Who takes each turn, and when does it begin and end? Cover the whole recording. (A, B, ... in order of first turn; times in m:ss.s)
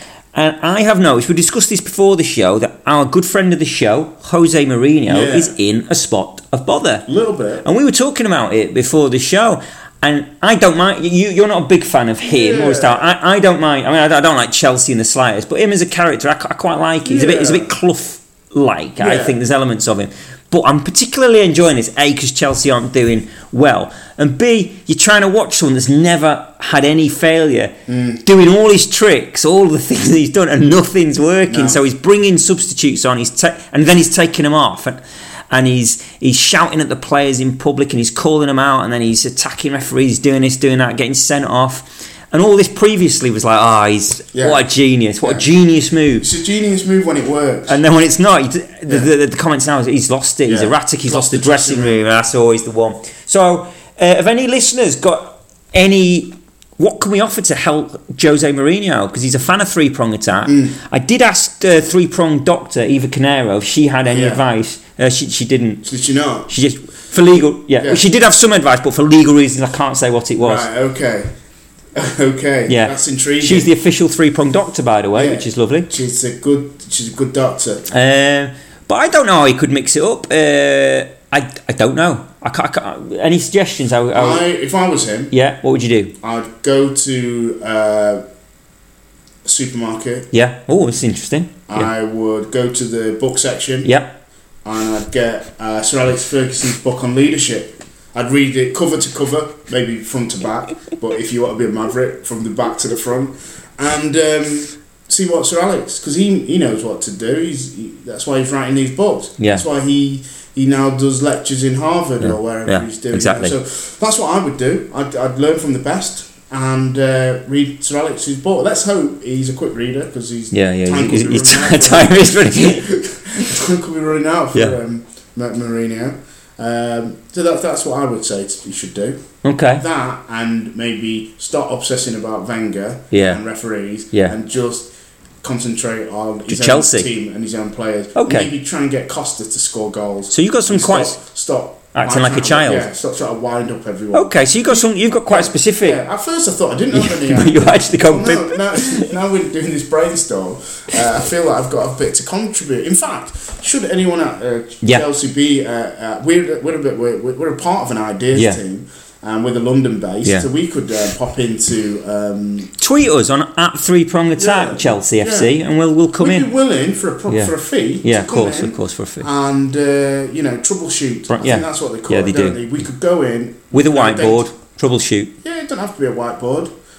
0:00.3-0:07.0 A
0:05.1-0:05.5 B
0:07.1-0:07.6 B
0:07.6-0:27.7 A
0:12.2-0:13.1 B
0:17.0-0:17.7 B
0:19.0-0:19.4 B
0:27.9-0:28.2 B
0:28.2-0:35.0 A
0:31.5-0:31.8 B
0:35.5-0:46.3 A
0:44.3-0:44.6 B
0:45.2-0:45.5 B
0:46.2-0:47.8 B
0:47.7-1:05.8 A
0:50.4-0:52.0 B
1:00.4-1:00.8 B
1:04.1-1:04.4 B
1:05.8-1:06.5 B
1:06.5-1:10.7 A
1:10.4-1:11.3 B
1:11.9-1:13.7 B
1:12.7-1:15.9 A
1:15.1-1:17.9 B
1:17.9-1:24.4 A
1:24.1-1:25.3 B
1:25.3-1:26.1 A
1:26.2-1:28.2 B
1:29.4-1:30.3 B
1:30.3-1:31.9 A
1:31.7-1:33.9 B
1:33.8-1:34.1 A
1:34.6-2:09.2 B
1:49.4-1:49.6 A
1:52.2-1:53.6 A
2:00.5-2:02.8 A
2:09.4-2:09.8 A
2:09.8-2:14.9 B
2:13.1-2:13.4 A
2:15.4-2:42.7 B
2:16.5-2:17.1 A
2:18.2-2:18.5 A
2:20.3-2:21.2 A
2:21.9-2:22.9 A
2:24.1-2:26.0 A
2:26.9-2:29.1 A
2:38.3-2:38.6 A
2:42.8-2:46.5 A
2:44.4-2:45.5 B
2:46.2-2:54.4 B
2:47.3-2:49.3 A
2:51.3-2:52.6 A
2:53.7-2:55.3 A
2:55.4-2:56.7 B